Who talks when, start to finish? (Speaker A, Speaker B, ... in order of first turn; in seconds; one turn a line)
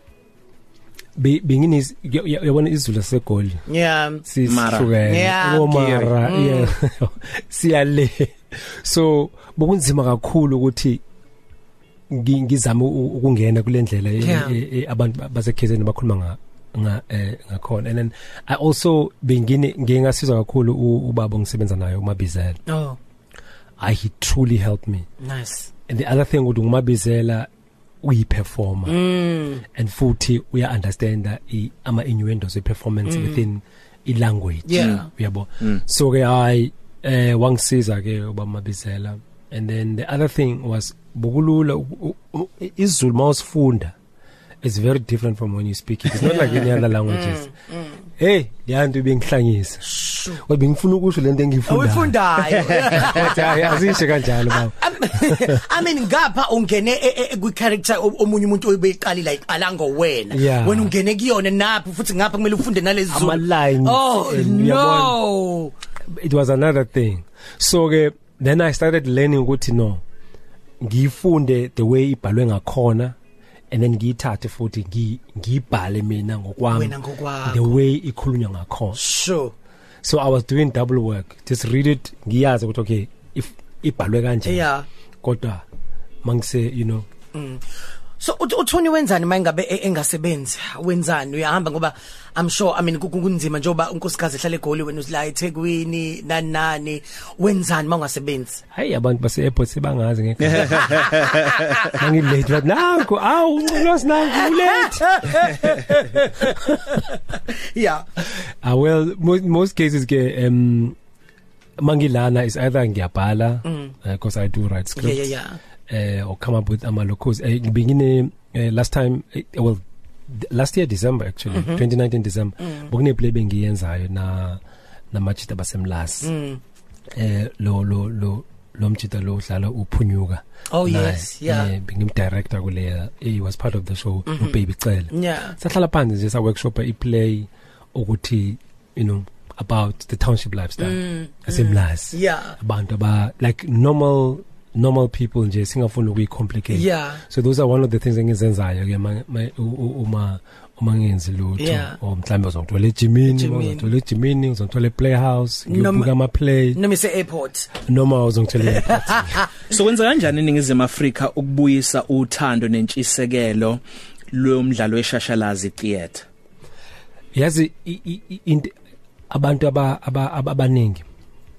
Speaker A: 1.2-3.6
Speaker B: 3.7-4.3
Speaker A: 4.3-11.0
Speaker C: 4.4-4.9
Speaker B: 5.0-6.7
Speaker C: 5.9-6.1
Speaker A: 12.1-22.6
Speaker B: 14.2-14.6
Speaker B: 22.7-23.0
Speaker A: 23.8-25.1
Speaker B: 25.2-25.7
Speaker A: 25.9-27.5
Speaker A: 28.0-29.0
Speaker B: 28.9-29.6
Speaker A: 29.7-43.9
Speaker B: 33.1-33.5
Speaker B: 34.7-35.1
Speaker C: 34.8-35.0
Speaker A: 44.6-47.5
Speaker B: 46.2-48.0
Speaker A: 48.2-55.6
Speaker B: 49.9-50.4
Speaker B: 51.7-65.7
Speaker A: 60.3-60.9
Speaker A: 63.1-65.2
Speaker A: 66.1-70.0
Speaker A: 70.8-73.2
Speaker A: 73.7-79.0
Speaker B: 76.7-77.8
Speaker B: 79.0-79.5
Speaker A: 80.0-84.7
Speaker B: 84.5-84.9
Speaker A: 85.2-85.6
Speaker A: 86.2-87.1
Speaker B: 87.3-87.6
Speaker B: 88.2-98.6
Speaker A: 98.7-105.5
Speaker C: 100.4-101.7
Speaker B: 100.9-101.9
Speaker B: 104.3-108.1
Speaker A: 108.6-111.0
Speaker A: 111.8-115.3
Speaker B: 113.7-113.9
Speaker B: 115.0-115.6
Speaker A: 115.9-124.6
Speaker B: 121.5-121.8
Speaker A: 125.1-126.3
Speaker B: 126.2-126.6
Speaker A: 127.1-156.8
Speaker B: 130.7-131.7
Speaker B: 134.3-134.6
Speaker B: 135.1-135.6
Speaker B: 140.8-142.6
Speaker B: 146.7-147.2
Speaker B: 151.6-152.0
Speaker B: 153.3-153.9
Speaker B: 155.7-156.1
Speaker B: 156.8-157.7
Speaker A: 157.8-159.4
Speaker B: 158.8-159.5
Speaker C: 159.7-163.8
Speaker C: 164.3-166.2
Speaker A: 167.3-168.7
Speaker A: 169.3-171.0